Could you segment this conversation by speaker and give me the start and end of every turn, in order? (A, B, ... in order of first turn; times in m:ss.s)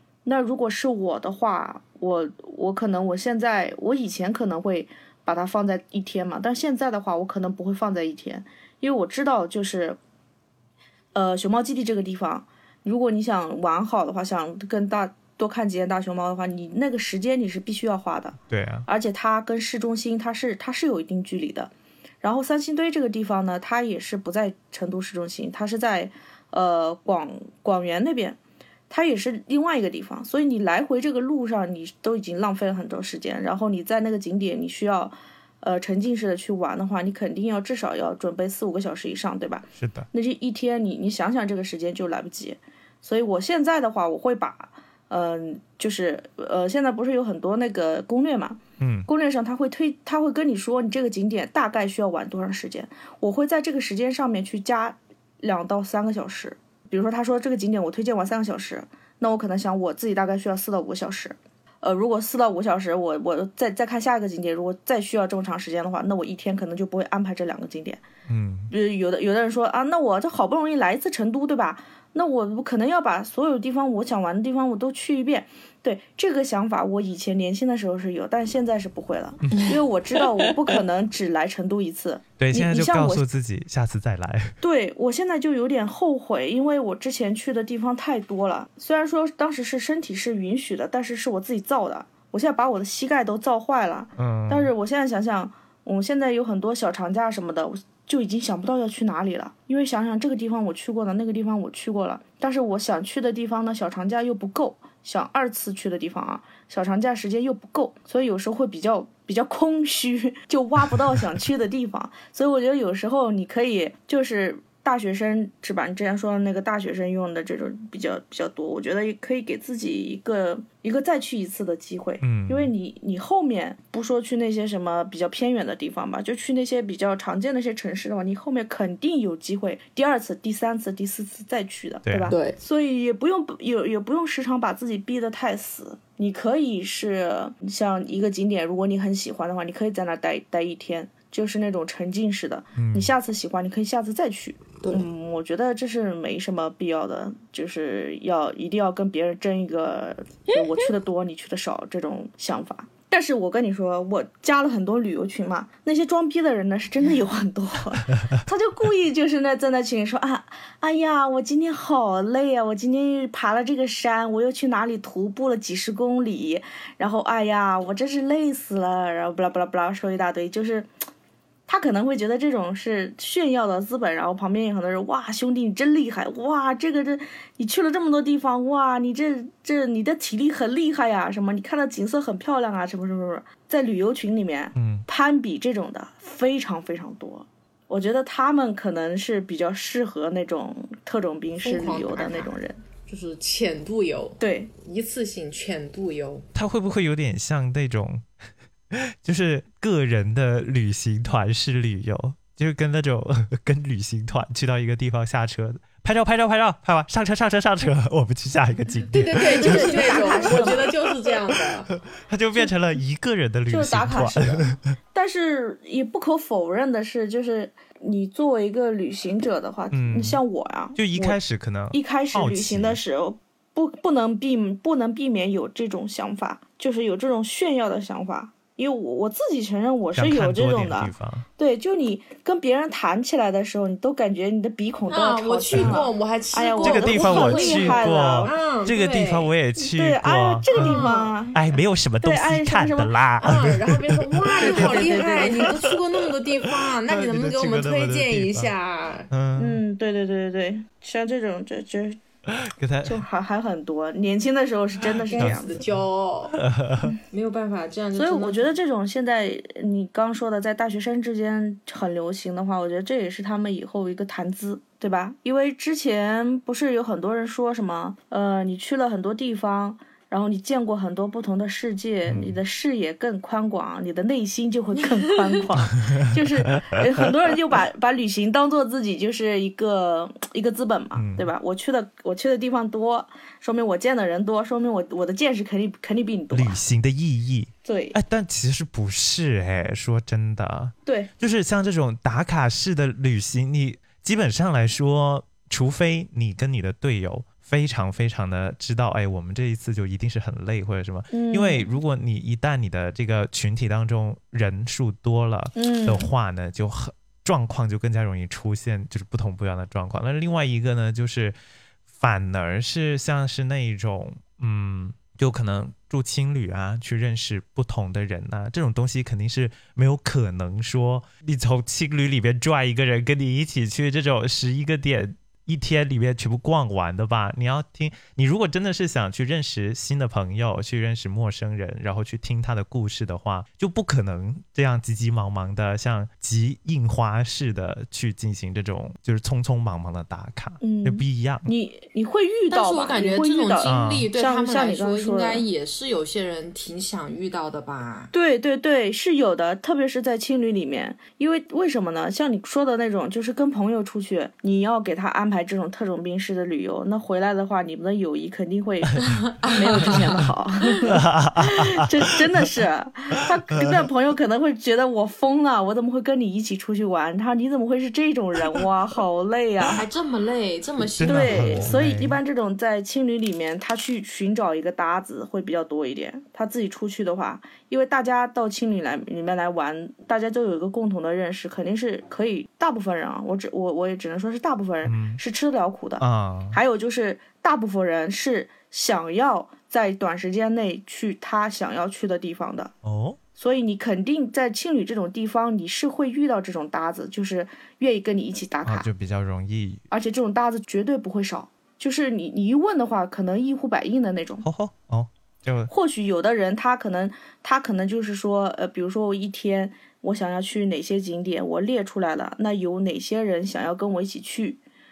0:00.2-0:10.0 A
0:11.2-0:21.7 A
0:18.5-0:18.9 B
0:22.2-0:28.4 A
0:28.9-1:08.0 A
0:39.8-0:40.1 B
0:48.8-0:49.1 B
1:08.3-1:08.7 B
1:08.7-1:23.2 A
1:22.4-1:24.6 B
1:24.6-2:50.9 A
1:34.2-1:34.7 B
2:02.2-2:02.7 B
2:12.1-2:12.4 B
2:12.3-2:12.6 C
2:22.8-2:23.1 B
2:30.5-2:30.9 C
2:51.7-3:12.8 A
3:04.8-3:05.1 B
3:11.6-3:12.5 C
3:13.1-3:16.5 C
3:14.4-3:14.7 A
3:16.6-3:18.3 B
3:18.9-3:30.9 B
3:29.1-3:31.9 C
3:29.4-3:30.9 A
3:31.9-3:34.8 B
3:33.7-3:41.4 A
3:39.9-3:40.4 B
3:41.0-3:43.0 B
3:41.9-3:58.6 A
3:50.2-3:51.5 B
3:55.1-3:59.5 C
3:55.7-3:56.0 B
3:56.8-4:06.0 B
3:59.8-4:01.6 A
4:00.7-4:01.4 C
4:02.2-4:03.2 A
4:03.4-4:09.3 C
4:04.6-4:05.9 A
4:06.8-4:08.7 B
4:09.3-4:09.8 B
4:09.6-4:12.2 A
4:12.5-4:13.2 B
4:13.0-4:15.8 A
4:15.3-4:16.6 C
4:15.4-4:17.2 B
4:17.3-4:18.7 C
4:18.2-4:46.8 A
4:32.3-4:32.6 B
4:35.2-4:35.6 C
4:36.0-4:37.3 B
4:41.2-4:41.5 B
4:46.5-5:11.6 B
4:47.8-4:48.2 A
5:01.3-5:01.9 A
5:05.8-5:06.3 A
5:12.1-5:41.7 B
5:40.8-5:45.6 A
5:42.7-5:48.3 C
5:43.8-5:44.3 B
5:48.3-6:10.0 A
5:59.2-6:00.5 C
6:01.1-6:02.1 B
6:03.7-6:04.1 B
6:09.9-6:11.9 C
6:11.0-6:12.4 B
6:11.2-6:32.9 A
6:25.0-6:25.4 B
6:26.2-6:26.8 B
6:33.0-6:33.4 B
6:33.6-6:39.1 A
6:38.8-6:40.0 B
6:40.1-6:44.7 A
6:44.6-6:45.9 B
6:45.9-6:54.8 A